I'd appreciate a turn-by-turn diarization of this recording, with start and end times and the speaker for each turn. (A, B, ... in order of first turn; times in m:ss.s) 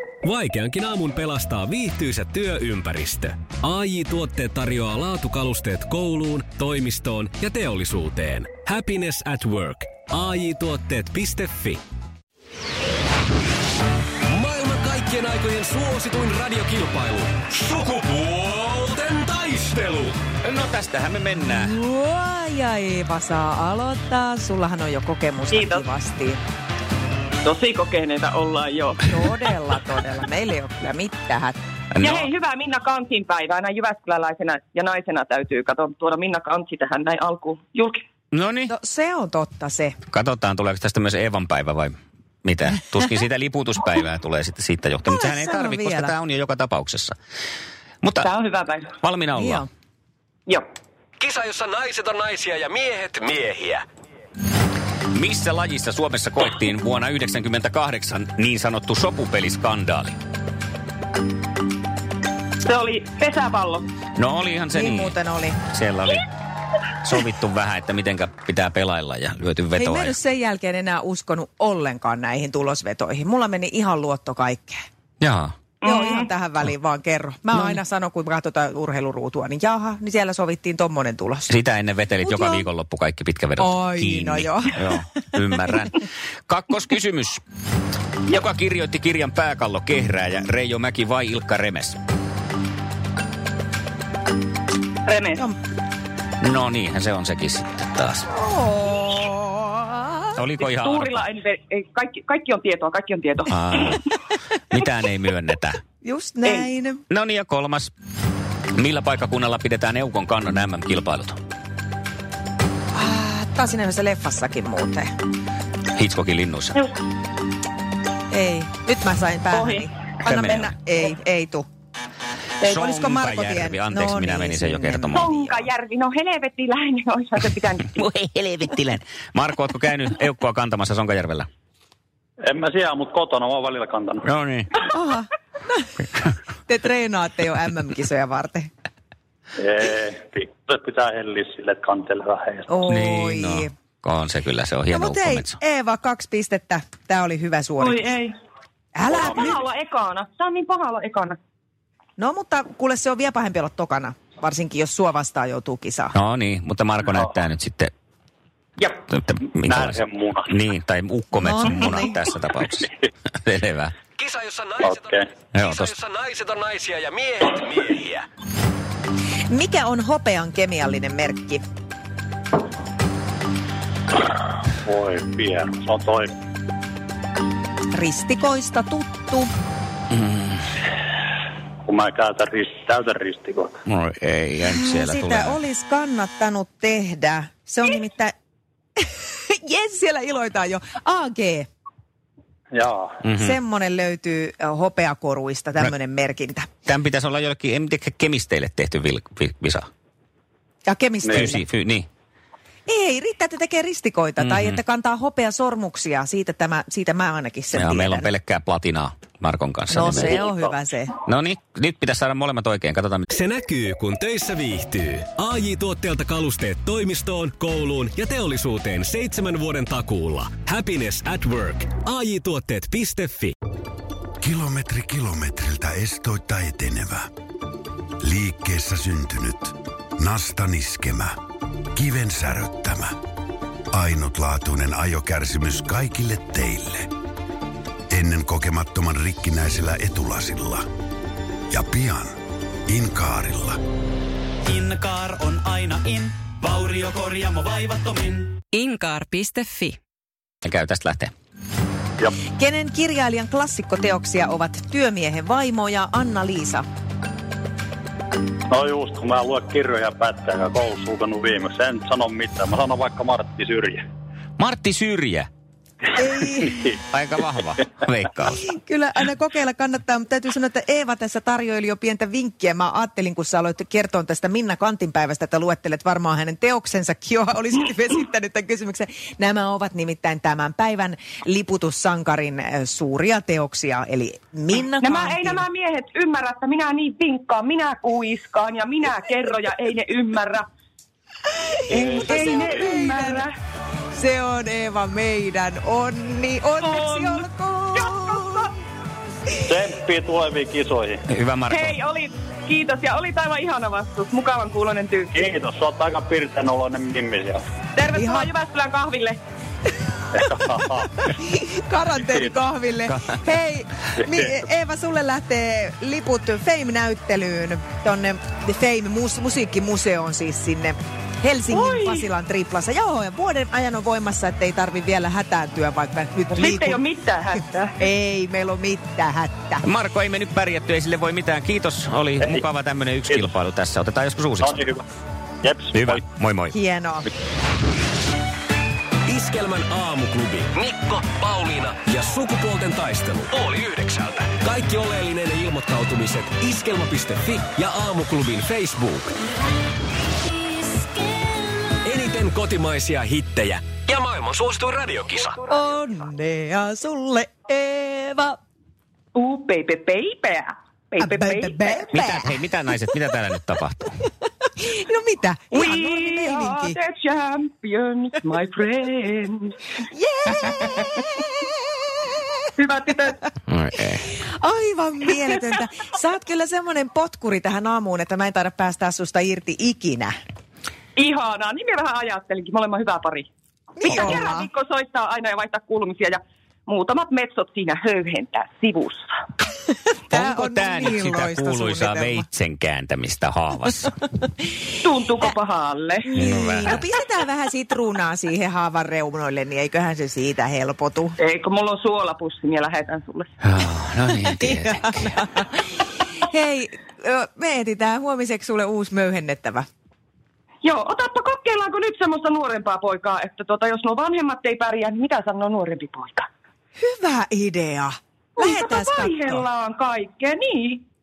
0:00.2-0:11.8 A
0:14.3-0:20.2 A
0:20.4-0:21.7 B
0:21.4-0:26.4 C
0:25.5-0:25.8 D
0:27.4-0:29.2 D
0:29.1-0:31.6 C
0:31.9-0:32.3 B
0:32.0-0:38.0 D
0:38.3-0:38.7 B
0:38.7-0:40.0 C
0:40.1-0:47.2 B
0:45.1-0:46.2 C
0:48.0-0:48.3 B
0:48.2-0:48.9 D
0:49.0-0:49.6 B
0:49.4-0:49.7 C
0:51.2-0:53.8 A
0:55.1-1:00.2 B
1:02.6-1:03.9 D
1:04.2-1:05.2 B
1:04.7-1:05.6 C
1:05.7-1:06.3 B
1:07.0-1:10.2 B
1:09.8-1:14.8 C
1:15.2-1:15.6 B
1:15.8-1:16.3 D
1:15.8-1:21.5 C
1:21.5-1:27.4 B
1:22.2-1:22.7 C
1:23.6-1:24.9 C
1:28.3-1:32.0 B
1:35.1-1:35.5 D
1:36.4-1:38.3 B
1:38.3-1:40.4 C
1:40.4-1:41.3 B
1:40.6-1:44.0 D
1:43.5-1:44.1 B
1:44.7-1:45.8 B
1:46.0-1:47.0 C
1:47.1-1:47.9 B
1:48.7-1:51.4 B
1:53.0-1:55.1 C
1:56.0-1:56.8 B
1:58.3-2:01.7 C
1:59.5-1:59.9 D
2:00.3-2:00.7 B
2:02.6-2:05.7 B
2:02.6-2:05.4 C
2:05.1-2:08.0 D
2:08.0-2:11.5 B
2:12.4-2:14.3 E
2:14.2-2:14.7 B
2:14.9-2:16.0 C
2:16.7-2:18.7 C
2:19.6-2:22.7 E
2:22.7-2:23.7 C
2:22.9-2:25.6 B
2:24.9-2:28.0 C
2:27.8-2:28.3 D
2:29.0-2:29.6 C
2:29.1-2:31.4 D
2:29.2-2:29.5 E
2:32.2-2:36.2 C
2:36.2-2:37.9 B
2:39.1-2:42.9 B
2:39.7-2:40.6 E
2:41.4-2:42.2 C
2:43.4-2:43.9 B
2:44.2-2:48.3 A
2:44.8-2:45.2 E
2:45.5-2:45.9 B
2:49.5-2:51.6 C
2:54.8-2:56.3 E
2:57.9-2:59.5 C
3:00.1-3:00.6 B
3:01.8-3:03.8 E
3:03.9-3:05.6 B
3:04.7-3:08.3 C
3:09.0-3:11.7 C
3:12.7-3:13.2 E
3:13.2-3:13.6 B
3:13.4-3:16.7 C
3:16.9-3:19.9 B
3:20.9-3:21.6 C
3:21.2-3:21.5 E
3:21.3-3:22.1 B
3:22.9-3:28.3 C
3:24.4-3:24.8 B
3:27.8-3:30.4 B
3:29.9-3:31.1 C
3:30.2-3:30.7 E
3:31.3-3:33.3 B
3:33.3-3:43.5 A
3:44.4-3:47.3 F
3:48.2-3:51.4 F
3:52.0-3:53.2 F
3:53.9-3:57.1 F
3:58.1-4:00.8 F
4:01.7-4:02.3 F
4:02.9-4:03.8 F
4:04.6-4:10.0 G
4:10.6-4:11.3 B
4:12.6-4:16.8 C
4:18.7-4:24.1 E
4:24.6-4:25.5 B
4:26.2-4:27.0 C
4:27.1-4:28.6 B
4:28.6-4:45.6 C
4:45.0-4:50.7 D
4:51.9-4:53.4 C
4:51.9-4:53.5 D
4:51.9-4:52.8 E
4:54.2-4:58.7 C
4:56.8-4:58.7 D
4:59.6-5:01.2 E
5:01.3-5:02.0 B
5:01.7-5:05.5 D
5:05.3-5:07.6 E
5:08.0-5:09.4 D
5:08.2-5:08.5 C
5:10.3-5:11.3 E
5:11.2-5:27.0 C
5:14.2-5:14.6 E
5:21.7-5:22.3 D
5:26.5-5:28.0 D
5:28.0-5:29.8 C
5:29.8-5:34.8 B
5:34.6-5:35.0 E
5:35.6-5:36.2 E
5:35.9-5:36.8 B
5:36.7-5:37.3 C
5:39.3-5:49.3 A
5:52.0-5:55.6 A
5:55.7-5:58.6 C
5:59.4-6:02.0 D
6:01.2-6:02.6 C
6:02.1-6:04.1 B
6:04.8-6:07.0 C
6:05.7-6:09.8 D
6:10.1-6:11.2 C
6:12.8-6:13.5 D
6:13.7-6:14.2 B
6:14.6-6:20.3 C
6:21.2-6:23.5 D
6:24.0-6:24.7 C
6:24.1-6:29.2 D
6:30.1-6:32.5 C
6:30.4-6:34.2 B
6:35.0-6:36.4 D
6:36.3-6:41.4 C
6:36.4-6:37.0 B
6:41.4-6:43.5 D
6:43.6-6:45.2 B
6:44.5-6:45.9 C
6:46.4-6:49.9 C
6:50.8-6:56.5 D
6:57.0-6:59.6 C
6:58.6-7:01.0 D